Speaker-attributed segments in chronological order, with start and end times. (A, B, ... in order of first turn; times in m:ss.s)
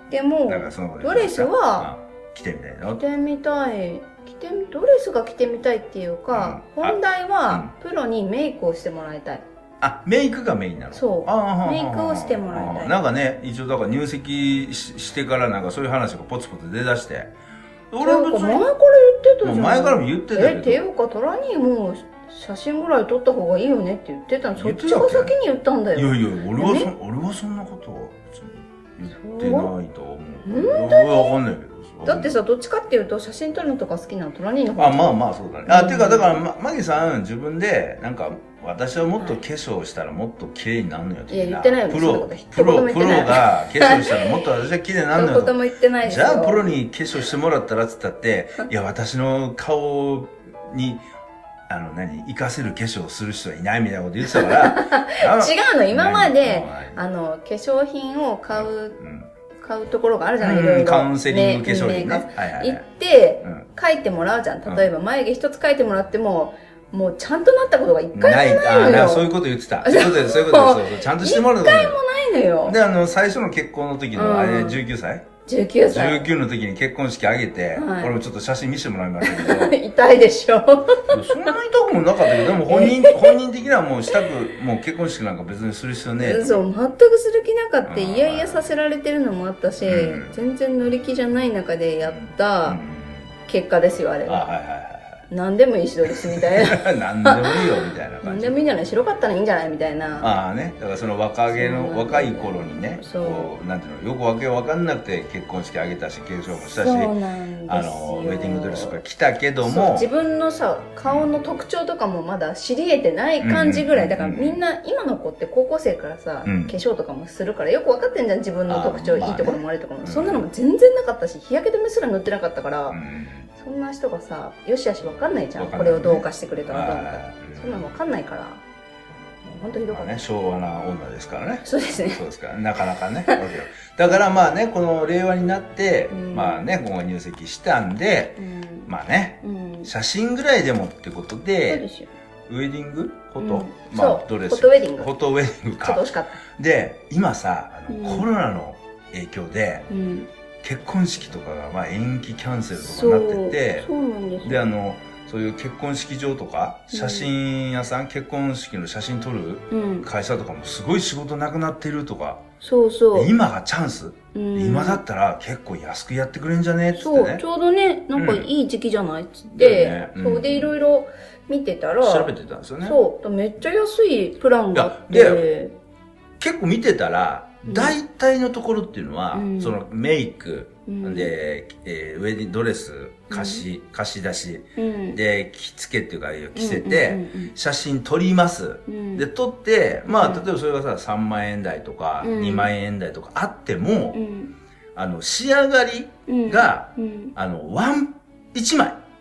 0:00.1-0:01.9 A
0:00.5-0:03.0 B
0:02.9-0:09.4 A
0:06.3-0:07.0 B
0:09.8-0:17.3 B
0:10.9-0:13.0 A
0:17.9-0:18.7 B
0:18.0-0:26.9 A
0:19.4-0:20.8 B
0:24.6-0:25.3 B
0:25.9-0:32.4 B
0:29.1-0:29.7 A
0:30.4-0:31.4 A
0:32.0-0:36.4 A
0:34.8-0:51.0 B
0:41.3-0:44.4 A
0:45.1-0:46.6 A
0:51.7-0:57.0 B
0:54.2-0:59.0 A
0:58.5-0:59.3 B
0:59.6-1:09.3 A
1:00.4-1:02.8 B
1:08.1-1:12.0 B
1:09.8-1:12.8 A
1:12.6-1:15.2 B
1:14.1-1:14.8 A
1:15.4-1:16.3 A
1:15.9-1:19.8 B
1:17.7-1:18.2 A
1:19.2-1:21.6 A
1:21.1-1:26.6 B
1:22.2-1:23.4 A
1:26.2-1:32.8 A
1:27.8-1:28.6 B
1:29.8-1:30.4 B
1:32.0-1:33.3 B
1:33.5-1:34.6 A
1:34.3-1:35.2 B
1:35.3-1:40.4 A
1:36.1-1:38.6 B
1:40.2-1:47.1 B
1:41.5-1:43.5 A
1:46.6-1:49.0 A
1:47.7-1:50.1 B
1:49.6-2:03.0 A
1:51.0-1:51.3 B
1:53.4-1:54.6 B
1:56.4-1:56.7 B
1:58.7-2:00.4 B
2:02.9-2:03.5 B
2:03.5-2:08.6 A
2:05.6-2:07.9 B
2:09.4-2:10.2 A
2:09.9-2:21.8 B
2:11.6-2:12.2 A
2:16.1-2:16.6 A
2:18.4-2:18.9 A
2:19.4-2:19.9 A
2:21.7-2:22.1 A
2:22.5-2:29.9 B
2:23.4-2:25.1 A
2:25.8-2:26.4 A
2:27.9-2:28.3 A
2:29.9-2:30.3 A
2:30.6-2:33.9 B
2:32.8-2:34.6 A
2:34.4-2:42.4 B
2:36.9-2:37.3 A
2:39.7-2:40.1 A
2:42.6-2:43.3 A
2:43.1-2:47.4 B
2:44.3-2:45.0 A
2:47.0-2:55.7 A
2:48.1-2:48.5 B
2:49.5-2:50.7 B
2:52.0-2:53.0 B
2:54.7-2:55.4 B
2:56.4-3:14.2 B
2:57.6-2:58.0 A
2:59.3-2:59.8 A
3:00.8-3:01.3 A
3:03.3-3:03.6 A
3:04.8-3:05.2 A
3:06.5-3:07.5 A
3:08.9-3:09.2 A
3:10.1-3:10.5 A
3:12.2-3:12.7 A
3:14.1-3:14.5 A
3:14.9-3:19.0 B
3:16.3-3:17.3 A